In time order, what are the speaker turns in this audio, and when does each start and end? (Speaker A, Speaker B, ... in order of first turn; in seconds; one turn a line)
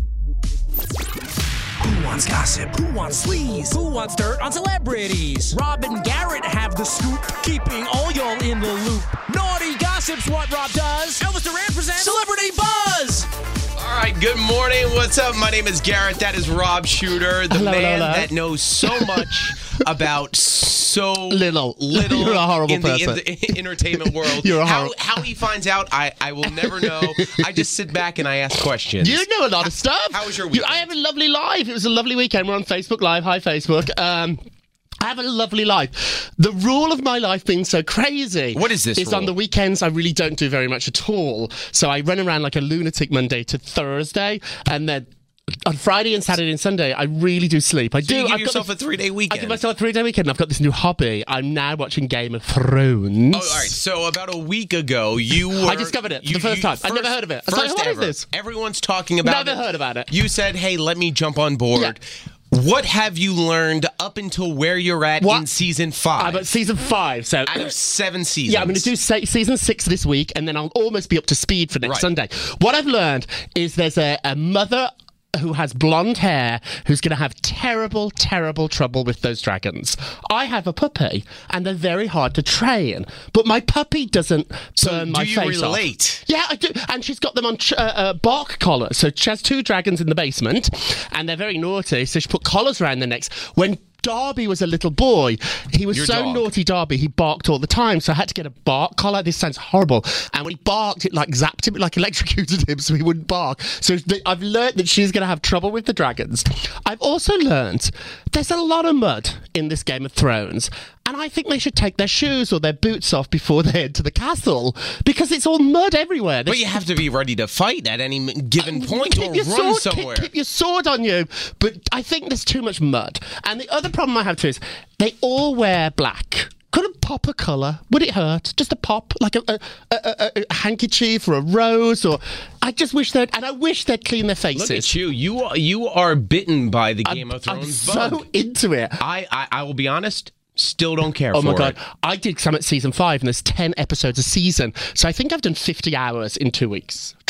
Speaker A: 1.8-13.3
Speaker B: 13.8-29.3
Speaker C: 17.5-19.8
Speaker C: 21.3-25.2
Speaker C: 26.5-27.4
Speaker C: 29.0-34.4
Speaker B: 30.1-30.9
Speaker C: 35.0-45.1
Speaker B: 38.5-39.3
Speaker C: 45.6-48.7
Speaker B: 48.0-49.6
Speaker C: 49.3-53.8
Speaker B: 53.3-66.5
Speaker C: 55.5-58.2
Speaker C: 59.2-60.1
Speaker C: 65.2-65.5
Speaker C: 66.2-67.7
Speaker B: 67.5-68.9
Speaker C: 68.5-116.8
Speaker B: 71.8-72.1
Speaker B: 84.8-86.3
Speaker B: 95.9-96.5
Speaker B: 116.5-120.3
Speaker C: 118.6-135.0
Speaker B: 134.5-138.3
Speaker C: 137.1-139.0
Speaker B: 139.0-141.8
Speaker C: 141.3-147.2